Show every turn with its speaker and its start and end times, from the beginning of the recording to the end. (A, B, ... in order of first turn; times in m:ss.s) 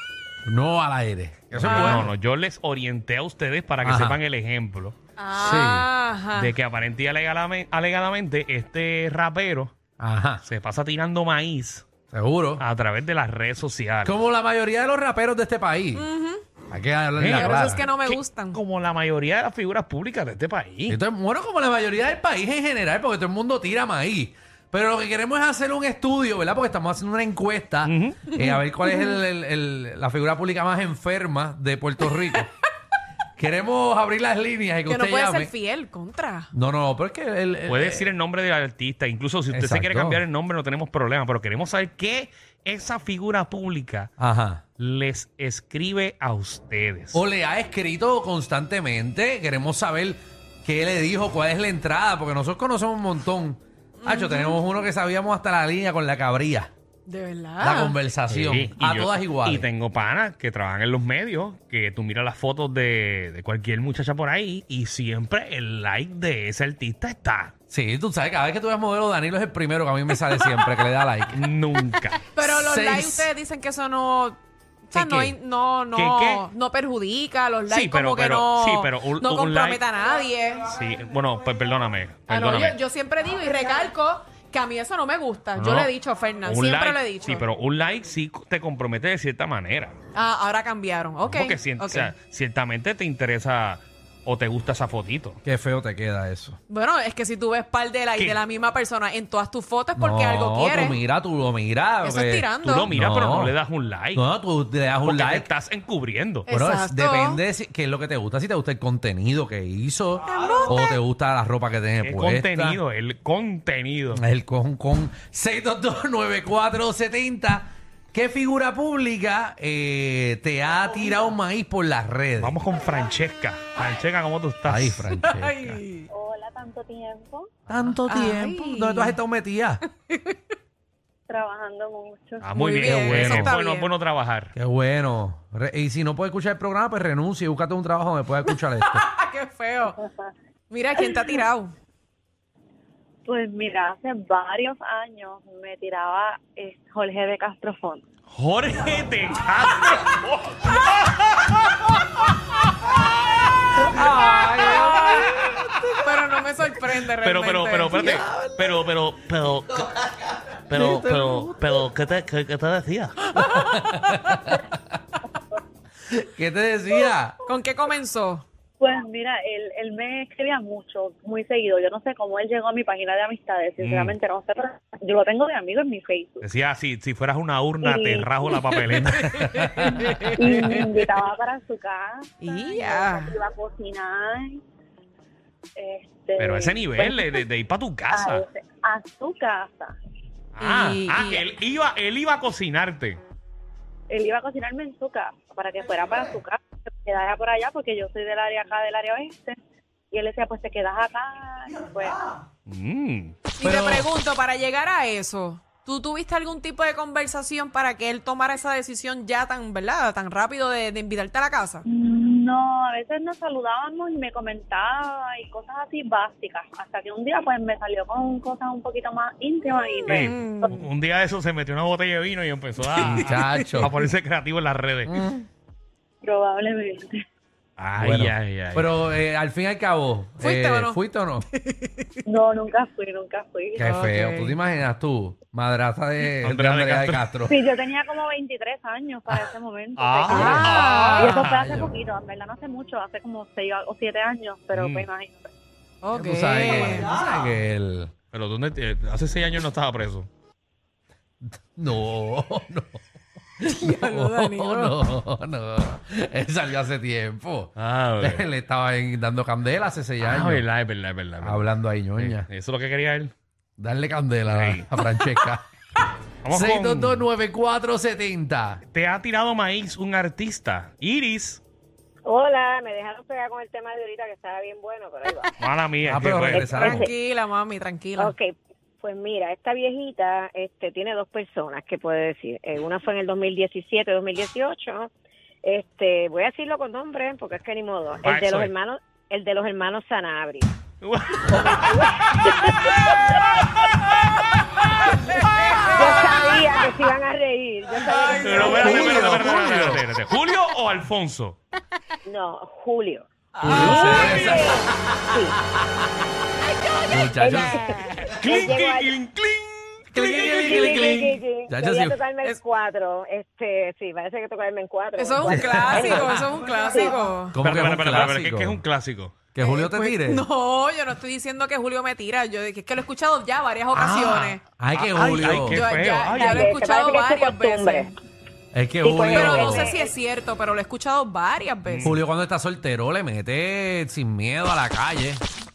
0:00.4-0:02.1 A
0:01.5-0:05.0 B
0:01.6-0:02.0 C
0:03.8-0:04.2 A
0:05.2-0:06.5 C
0:05.4-0:05.9 A
0:06.4-0:09.7 B
0:10.0-0:10.4 A
0:10.4-0:11.9 B
0:12.1-0:12.6 A
0:12.6-0:14.2 B
0:14.0-0:16.1 A
0:15.9-0:16.4 C
0:16.7-0:17.8 A
0:17.2-0:21.0 B
0:17.3-0:18.6 C
0:20.9-0:32.5 A
0:27.8-0:28.3 B
0:33.4-0:35.5 A
0:34.9-0:36.5 C
0:36.5-0:38.1 A
0:37.7-0:44.1 B
0:39.5-0:40.2 A
0:44.2-0:44.6 A
0:44.8-0:47.2 B
0:47.1-0:56.7 A
0:54.0-0:54.6 C
0:57.1-0:58.0 C
0:57.6-0:59.7 A
0:58.3-1:07.5 B
1:07.7-1:11.5 A
1:10.4-1:10.9 C
1:11.3-1:12.2 B
1:12.3-1:20.7 C
1:12.4-1:13.3 A
1:14.9-1:15.4 B
1:15.9-1:16.5 B
1:17.7-1:19.8 B
1:20.6-1:22.8 B
1:22.3-1:27.5 C
1:25.6-1:25.9 B
1:26.4-1:30.0 B
1:30.1-1:32.1 C
1:31.2-1:35.4 B
1:35.4-1:36.6 A
1:36.7-1:41.0 C
1:40.0-1:43.6 A
1:42.0-1:42.9 C
1:42.6-1:44.2 B
1:44.1-1:45.5 A
1:45.0-1:46.5 B
1:46.5-1:47.4 C
1:46.5-1:52.8 A
1:50.2-1:50.9 C
1:52.0-1:54.2 B
1:54.1-2:02.6 A
2:02.4-2:05.1 B
2:04.6-2:05.8 A
2:05.2-2:06.1 C
2:06.1-2:07.5 D
2:07.7-2:09.8 A
2:08.1-2:09.2 C
2:10.1-2:10.4 C
2:11.3-2:12.6 D
2:12.4-2:14.5 B
2:12.6-2:13.9 C
2:13.0-2:13.5 A
2:14.6-2:19.0 A
2:19.0-2:20.0 C
2:20.7-2:21.7 C
2:23.3-2:28.0 D
2:28.3-2:32.0 B
2:33.9-2:35.8 A
2:36.0-2:38.1 C
2:37.2-2:43.3 B
2:38.1-2:38.6 A
2:40.7-2:41.6 A
2:43.3-2:44.6 A
2:46.0-2:47.4 A
2:47.4-2:48.4 C
2:48.8-2:56.4 D
2:53.8-2:54.2 B
2:56.4-2:59.7 B
2:57.8-2:58.7 D
2:59.2-3:00.1 A
2:59.8-3:04.6 D
3:02.4-3:03.4 C
3:05.8-3:07.4 D
3:06.4-3:08.4 B
3:08.1-3:09.9 D
3:10.6-3:13.2 B
3:10.6-3:11.5 C
3:14.1-3:19.6 D
3:20.1-3:22.4 D
3:22.7-3:23.4 B
3:23.6-3:31.8 C
3:23.6-3:24.1 A
3:31.8-3:40.8 D
3:40.1-3:45.1 B
3:40.1-3:40.8 C
3:43.0-3:43.8 C
3:43.0-3:44.0 A
3:45.1-3:45.4 A
3:46.2-3:47.2 D
3:47.8-3:49.1 B
3:48.0-3:51.5 A
3:50.4-3:51.0 C
3:51.5-3:52.1 C
3:52.2-3:53.9 D
3:53.8-3:57.6 A
3:53.8-3:54.6 C
3:56.4-3:57.3 B
3:57.5-4:05.5 D
4:00.0-4:01.7 B
4:00.3-4:01.9 A
4:00.4-4:01.3 C
4:04.7-4:05.1 B
4:06.0-4:07.2 C
4:06.1-4:08.1 A
4:08.3-4:10.3 B
4:11.4-4:13.0 A
4:13.6-4:20.6 A
4:13.6-4:15.0 C
4:17.8-4:18.4 B
4:20.2-4:23.3 B
4:21.4-4:22.5 A
4:23.8-4:25.6 A
4:24.5-4:24.9 B
4:26.4-4:27.3 B
4:26.5-4:28.8 A
4:28.9-4:31.6 B
4:32.3-4:35.5 E
4:35.6-4:36.7 B
4:36.0-4:37.1 A
4:36.5-4:38.3 C
4:36.7-4:37.1 E
4:38.2-4:45.1 E
4:45.6-4:50.7 E
4:48.2-4:48.7 B
4:51.0-4:51.9 B
4:51.5-4:53.3 E
4:55.9-4:59.5 E
4:58.1-4:59.2 C
4:58.4-5:01.6 B
4:58.7-5:00.0 A
5:02.2-5:05.6 E
5:03.6-5:04.8 A
5:03.6-5:04.7 B
5:03.7-5:04.1 C
5:07.1-5:07.9 A
5:07.3-5:07.8 E
5:08.2-5:10.7 B
5:08.5-5:09.1 E
5:10.1-5:12.2 A
5:10.2-5:17.2 E
5:15.2-5:17.6 C
5:15.5-5:16.2 A
5:17.5-5:18.8 A
5:17.6-5:19.4 B
5:19.5-5:20.4 A
5:19.6-5:24.6 C
5:23.9-5:26.6 B
5:24.8-5:25.8 A
5:25.7-5:28.1 C
5:26.3-5:28.1 E
5:28.7-5:29.9 A
5:29.0-5:30.1 E
5:29.3-5:32.2 C
5:31.9-5:32.2 B
5:32.0-5:35.4 A